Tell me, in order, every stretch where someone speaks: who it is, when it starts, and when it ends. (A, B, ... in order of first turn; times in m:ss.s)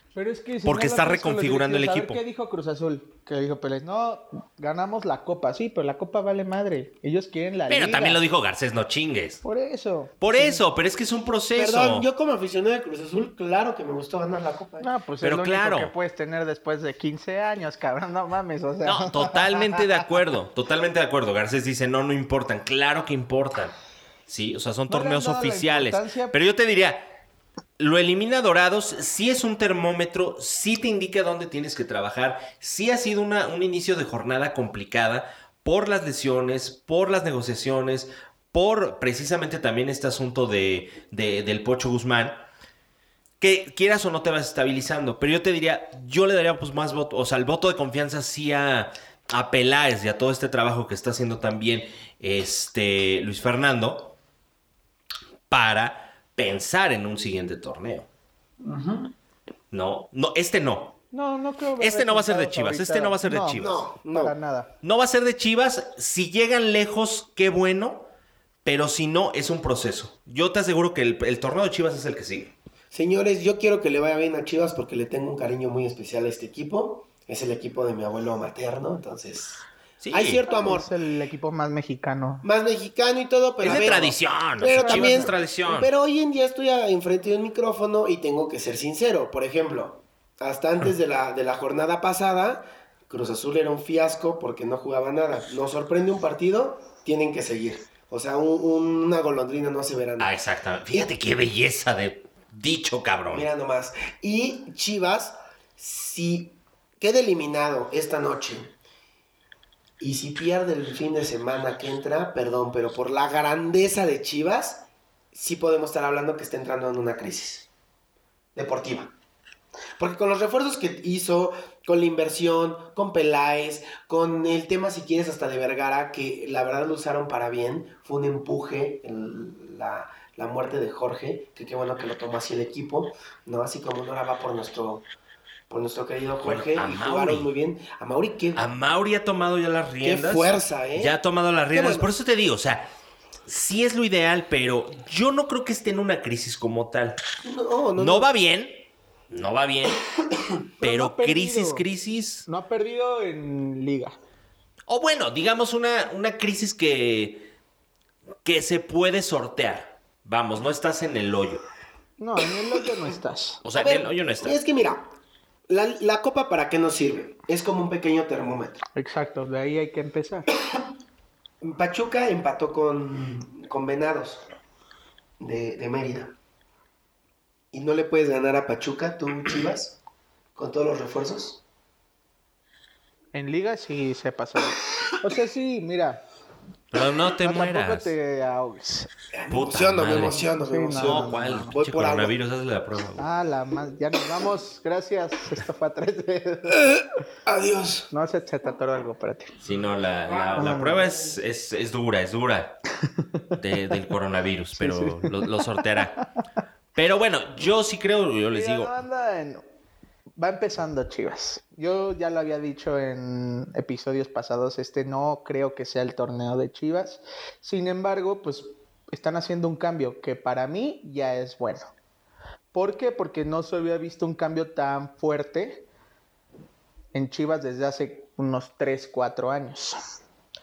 0:00.1-0:08.2 A
0:00.6-0:02.2 B
0:07.7-0:09.4 B
0:09.4-0:10.6 A
0:10.2-0:12.1 B
0:11.5-0:14.9 C
0:14.8-0:19.9 A
0:15.2-0:15.9 B
0:18.8-0:23.7 B
0:24.3-0:27.1 B
0:24.9-0:26.4 A
0:27.8-0:42.4 B
0:43.4-0:54.1 B
0:55.5-0:58.1 B
0:58.6-0:59.1 C
0:59.7-1:01.0 B
1:01.1-1:04.7 A
1:01.8-1:03.8 B
1:03.5-1:04.3 C
1:04.8-1:08.0 B
1:08.6-1:12.5 B
1:12.9-1:20.9 C
1:20.0-1:20.4 B
1:20.5-1:22.4 A
1:22.4-1:40.3 C
1:23.6-1:25.9 B
1:24.6-1:25.3 A
1:40.2-1:43.5 B
1:43.3-1:48.7 C
1:50.0-1:57.7 C
1:58.5-1:59.1 C
2:00.0-2:15.0 C
2:15.7-2:18.6 C
2:16.4-2:17.5 B
2:18.5-2:22.9 B
2:20.0-2:21.1 C
2:21.7-2:22.1 C
2:23.4-2:27.2 B
2:27.4-2:28.3 C
2:28.0-2:30.0 B
2:30.8-2:31.8 A
2:30.8-2:32.5 B
2:32.5-2:34.2 A
2:34.9-2:37.5 B
2:38.4-2:41.6 B
2:42.2-2:43.6 A
2:43.6-2:44.6 B
2:43.7-2:45.1 C
2:45.7-2:48.8 C
2:49.0-2:50.5 A
2:51.6-2:54.4 C
2:55.4-2:56.3 C
2:57.7-3:00.0 C
3:00.6-3:01.6 C
3:03.3-3:06.2 A
3:06.9-3:08.1 B
3:07.4-3:09.1 A
3:09.3-3:12.3 C
3:09.5-3:13.3 B
3:10.6-3:11.8 A
3:13.2-3:16.8 A
3:16.9-3:18.1 C
3:18.1-3:19.6 A
3:19.6-3:22.8 B
3:20.5-3:21.0 A
3:23.6-3:26.2 B
3:24.8-3:25.6 A
3:26.9-3:28.9 B
3:28.5-3:29.6 A
3:30.4-3:41.9 A
3:42.7-3:45.8 A
3:47.1-3:50.0 A